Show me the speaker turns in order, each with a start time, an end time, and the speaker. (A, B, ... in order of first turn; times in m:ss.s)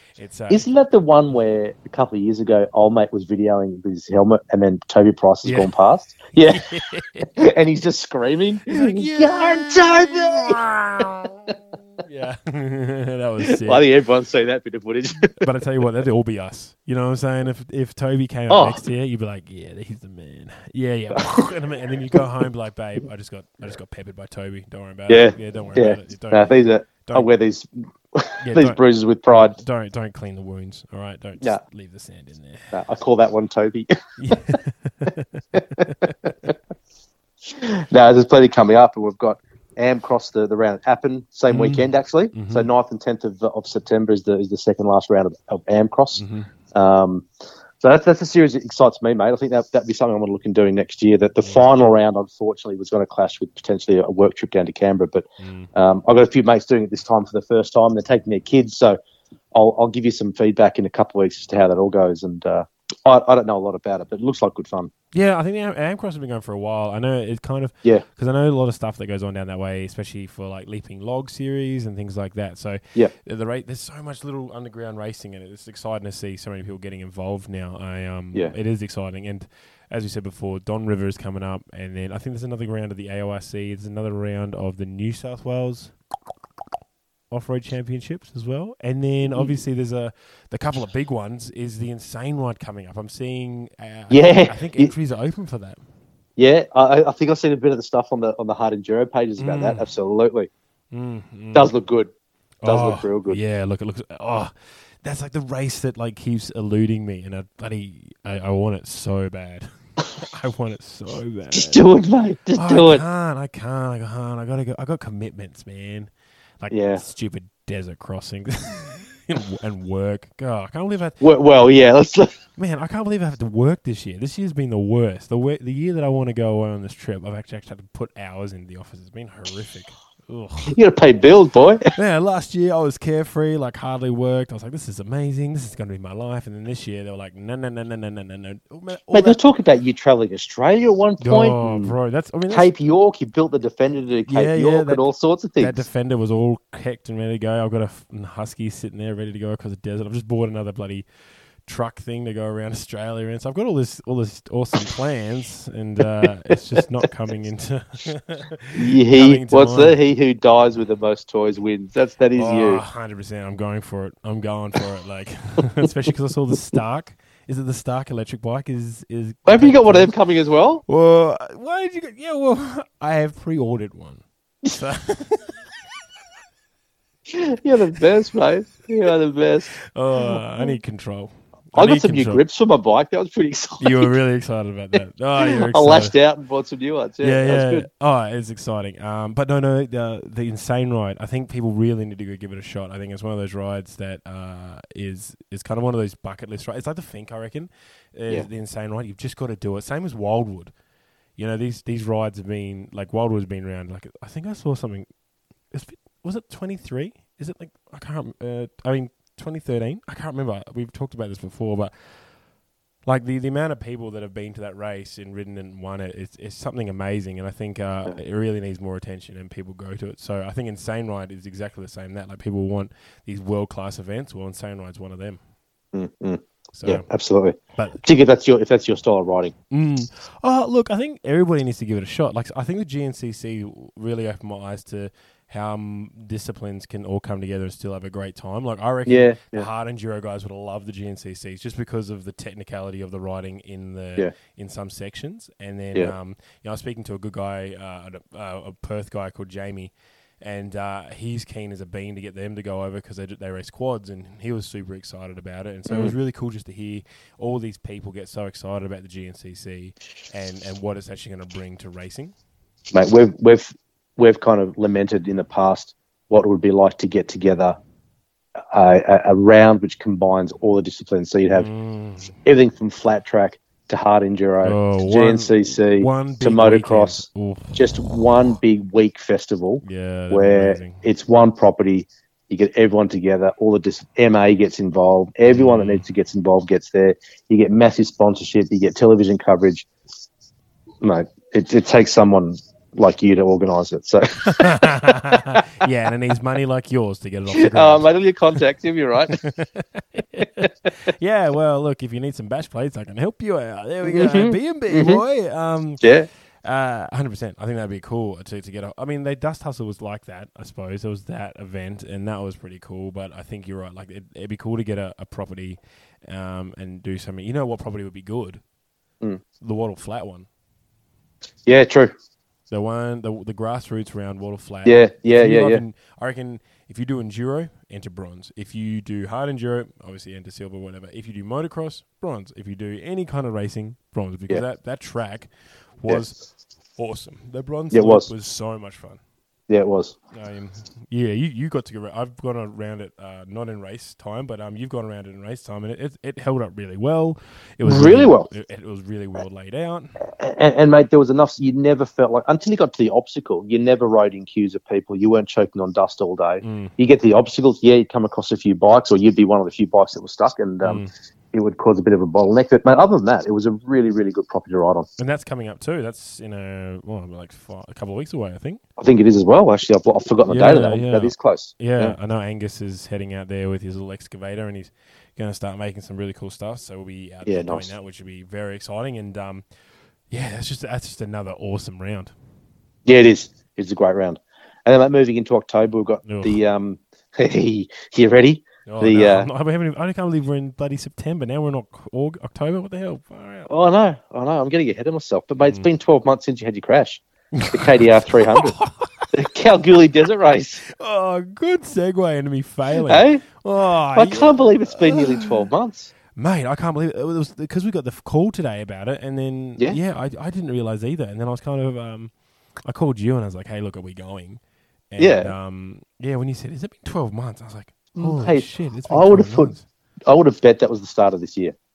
0:00.2-0:00.7 A
0:00.5-0:06.7 B
0:05.4-0:05.7 A
0:06.4-0:07.3 A
0:07.4-0:11.5 B
0:08.7-0:13.8 A
0:13.4-0:15.4 B
0:15.3-0:26.5 A
0:18.5-0:18.8 B
0:21.2-0:22.2 B
0:25.1-0:29.6 B
0:28.4-0:28.8 A
0:29.4-0:32.7 A
0:32.7-0:34.6 B
0:34.2-0:36.1 A
0:35.6-0:36.5 B
0:37.5-0:47.3 B
0:41.5-0:42.7 A
0:46.2-0:46.5 A
0:47.8-0:59.0 B
0:55.4-0:55.7 A
0:59.5-1:04.9 B
1:05.1-1:25.9 A
1:27.3-1:35.8 A
1:29.2-1:29.5 B
1:34.1-1:34.9 B
1:36.4-1:40.5 B
1:39.4-1:39.8 A
1:40.9-1:41.7 A
1:41.5-1:42.1 B
1:42.6-1:49.7 A
1:42.6-1:43.4 B
1:50.2-1:51.8 A
1:51.5-1:53.0 B
1:52.6-2:01.2 A
1:56.7-1:57.0 B
2:01.2-2:02.4 B
2:02.6-2:10.8 A
2:10.7-2:11.9 B
2:12.0-2:19.4 A
2:19.1-2:21.9 B
2:21.2-2:22.7 A
2:22.5-2:25.8 B
2:24.3-2:25.1 A
2:25.6-2:31.1 A
2:31.6-2:40.0 A
2:38.8-2:42.8 B
2:42.3-2:50.1 A
2:49.4-2:50.8 B
2:50.9-2:55.5 A
2:57.3-2:59.7 B
2:59.8-3:02.4 A
3:01.8-3:04.1 B
3:03.8-3:06.1 A
3:05.4-3:07.9 B
3:07.2-3:20.7 A
3:21.4-3:25.1 A
3:25.7-3:31.9 A
3:33.1-3:45.4 A
3:45.9-3:49.5 B
3:46.8-3:47.0 A
3:49.7-4:22.3 A
3:59.1-3:59.7 B
4:22.9-4:27.8 B
4:28.7-4:31.7 B
4:31.5-4:32.3 A
4:32.4-4:49.9 B
4:34.6-4:37.9 A
4:39.8-4:41.0 A
4:45.4-4:46.0 A
4:51.0-4:55.2 B
4:54.4-4:58.1 A
4:57.5-4:59.4 B
4:59.3-5:06.0 A
5:04.0-5:05.2 B
5:06.0-5:06.3 B
5:06.6-5:18.6 A
5:19.6-5:20.5 A
5:21.6-5:22.1 B
5:22.7-5:35.5 A
5:24.8-5:25.8 B
5:36.0-5:36.4 A
5:37.0-5:39.2 A
5:37.9-5:38.3 B
5:39.7-5:40.2 B
5:40.3-5:50.1 A
5:47.8-5:48.5 B
5:50.3-6:05.1 B
5:56.6-5:56.9 A
6:00.8-6:01.1 A
6:05.2-6:08.8 A
6:09.0-6:12.2 B
6:10.4-6:19.6 A
6:17.4-6:17.9 B
6:20.3-6:22.3 A
6:23.1-6:29.5 B
6:26.2-6:26.6 A
6:28.9-6:33.7 A
6:33.7-6:38.8 B
6:37.5-6:39.3 A
6:39.3-6:40.8 B
6:41.0-6:45.7 A
6:43.1-6:43.4 B
6:44.1-6:46.1 B
6:46.4-6:52.3 A
6:52.8-6:54.6 A
6:55.1-6:59.8 A
6:55.2-6:55.5 B
6:58.2-6:59.7 B
7:00.3-7:01.7 B